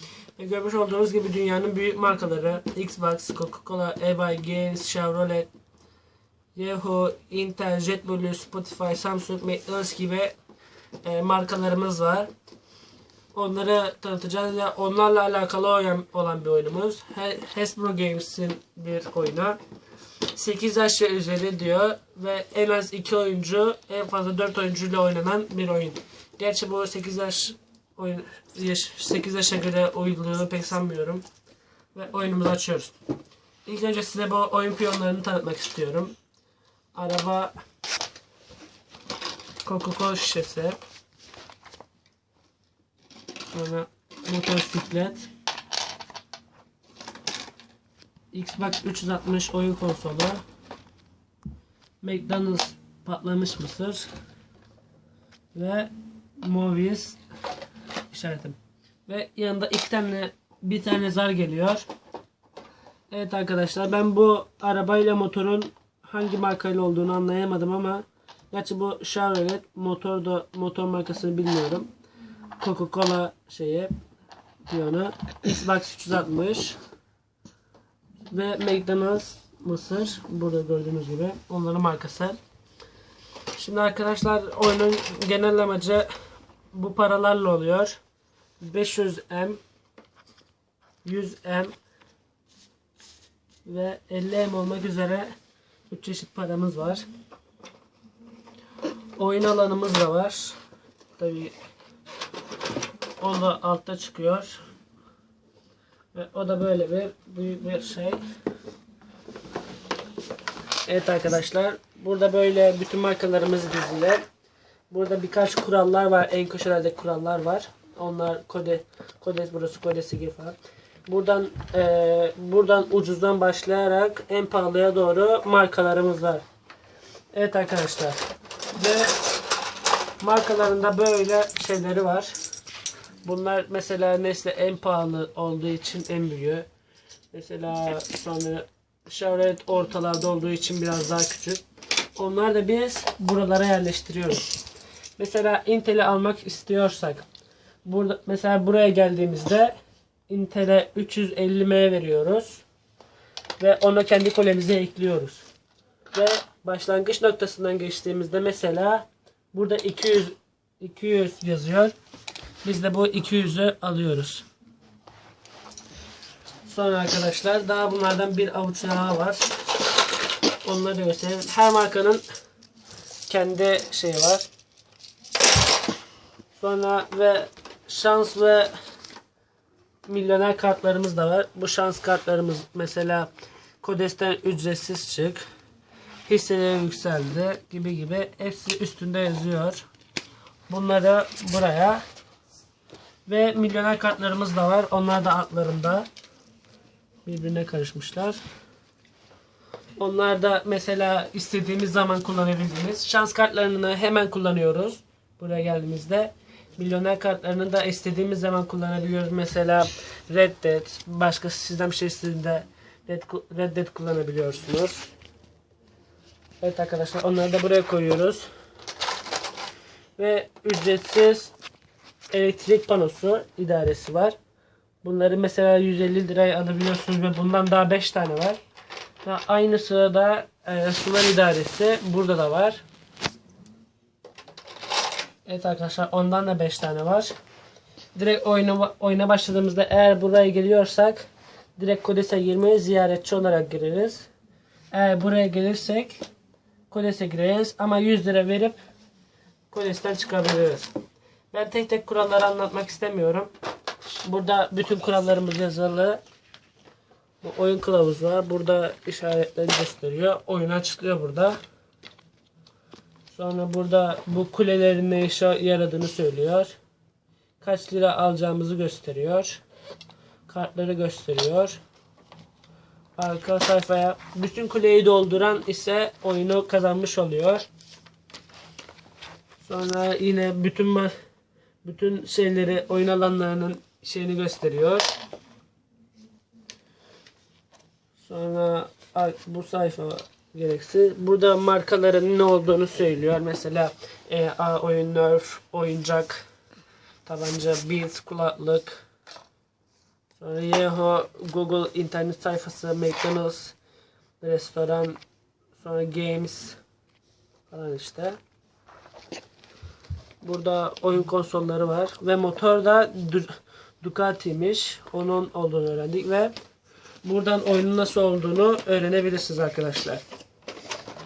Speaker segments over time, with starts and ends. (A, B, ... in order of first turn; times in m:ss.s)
0:00.4-0:05.5 A
0:06.5-0:10.3 A
0:11.0-0:12.3 A
0:13.3-0:19.6 A
0:20.3-0:31.2 A
0:31.9-0:33.0 A
0:33.6-0:36.1 A
0:36.9-0:37.5 A
0:39.6-0:40.8 A
0:43.5-0:45.3 A
0:48.3-0:50.4 A
0:52.0-0:54.1 A
0:55.5-0:57.2 A
0:58.1-1:01.8 A
1:03.1-1:11.9 A
1:12.6-1:13.9 A
1:14.7-1:16.8 A
1:18.3-1:22.4 A
1:23.5-1:26.1 A
1:26.7-1:28.0 A
1:28.6-1:29.6 A
1:31.0-1:31.7 A
1:33.6-1:35.3 A
1:35.9-1:37.0 A
1:39.2-1:40.6 A
1:41.2-1:41.5 A
1:43.2-1:44.6 A
1:46.1-1:48.2 A
1:50.8-1:54.2 A
1:54.9-2:06.4 A
2:07.3-2:08.2 A
2:08.7-2:09.2 A
2:10.2-2:12.3 A
2:13.2-2:16.7 A
2:17.3-2:21.6 A
2:22.2-2:24.5 A
2:25.2-2:27.3 A
2:27.8-2:29.7 A
2:30.3-2:32.6 A
2:33.6-2:35.4 A
2:36.1-2:41.9 A
2:42.6-2:44.4 A
2:46.7-2:49.5 A
2:50.6-2:52.2 A
2:53.3-2:54.5 A
2:56.6-2:58.7 A
3:00.1-3:03.3 A
3:03.8-3:05.4 A
3:06.2-3:09.8 A
3:10.7-3:12.0 A
3:13.3-3:16.1 A
3:17.2-3:18.4 A
3:20.0-3:35.1 A
3:36.6-3:38.5 A
3:40.2-3:41.5 A
3:42.3-3:44.4 A
3:45.0-3:48.6 A
3:49.2-3:52.8 A
3:55.4-3:57.3 A
3:58.1-4:04.3 A
4:04.9-4:06.2 A
4:06.9-4:08.8 A
4:09.7-4:10.9 A
4:11.5-4:13.5 A
4:14.2-4:16.2 A
4:17.4-4:21.6 A
4:23.3-4:26.7 A
4:27.6-4:29.6 A
4:30.5-4:31.8 A
4:33.2-4:37.6 A
4:39.6-4:41.1 A
4:41.8-4:45.1 A
4:48.2-4:56.4 A
4:57.2-4:59.0 A
5:00.4-5:03.8 A
5:04.4-5:05.2 A
5:05.8-5:06.8 A
5:07.7-5:08.4 A
5:10.4-5:16.5 A
5:17.2-5:20.2 A